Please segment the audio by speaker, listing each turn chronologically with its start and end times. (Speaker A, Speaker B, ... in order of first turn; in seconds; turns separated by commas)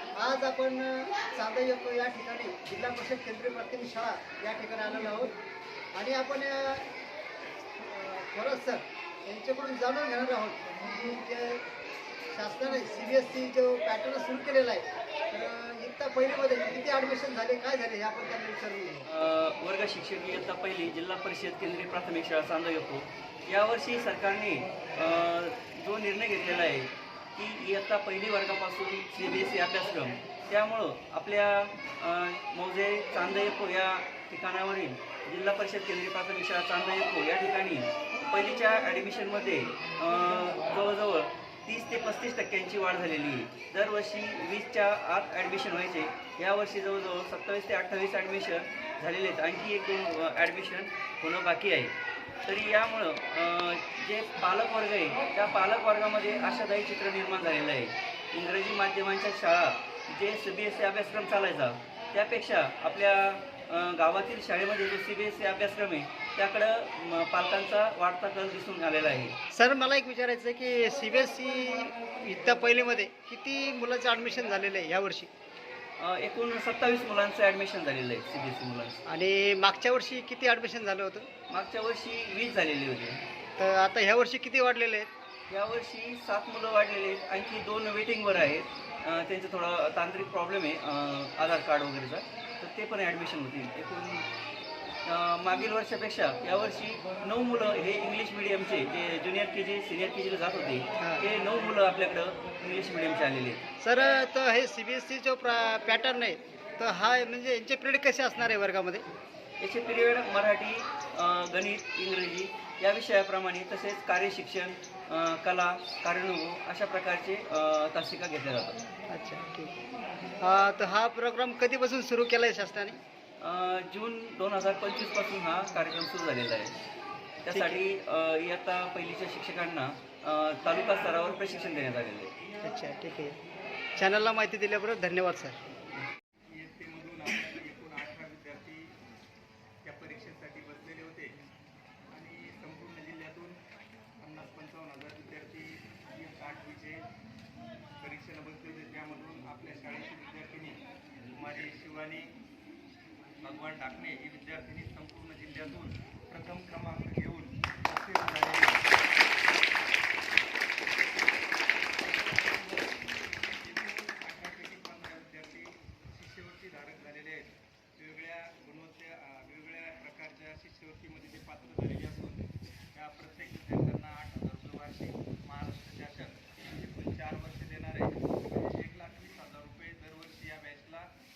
Speaker A: 0.1-5.3, Speaker A: 6.0-6.9, Speaker A: 7.8-11.6, Speaker A: 12.3-19.1, Speaker B: 19.1-69.3, Speaker A: 69.5-75.3, Speaker B: 76.0-79.0, Speaker A: 79.1-81.3, Speaker B: 81.5-83.2, Speaker A: 83.6-85.1, Speaker B: 85.5-94.3, Speaker B: 95.1-103.6, Speaker A: 103.8-109.1, Speaker B: 109.6-118.8, Speaker A: 119.1-119.8, Speaker A: 120.4-123.0, Speaker B: 123.4-126.8, Speaker B: 127.4-132.3, Speaker A: 127.5-127.8, Speaker A: 132.6-133.4, Speaker A: 134.0-135.6, Speaker C: 136.5-138.9, Speaker C: 139.8-141.3, Speaker C: 142.1-143.6, Speaker C: 144.2-147.0, Speaker C: 148.0-152.3, Speaker C: 153.4-158.8, Speaker C: 163.6-181.1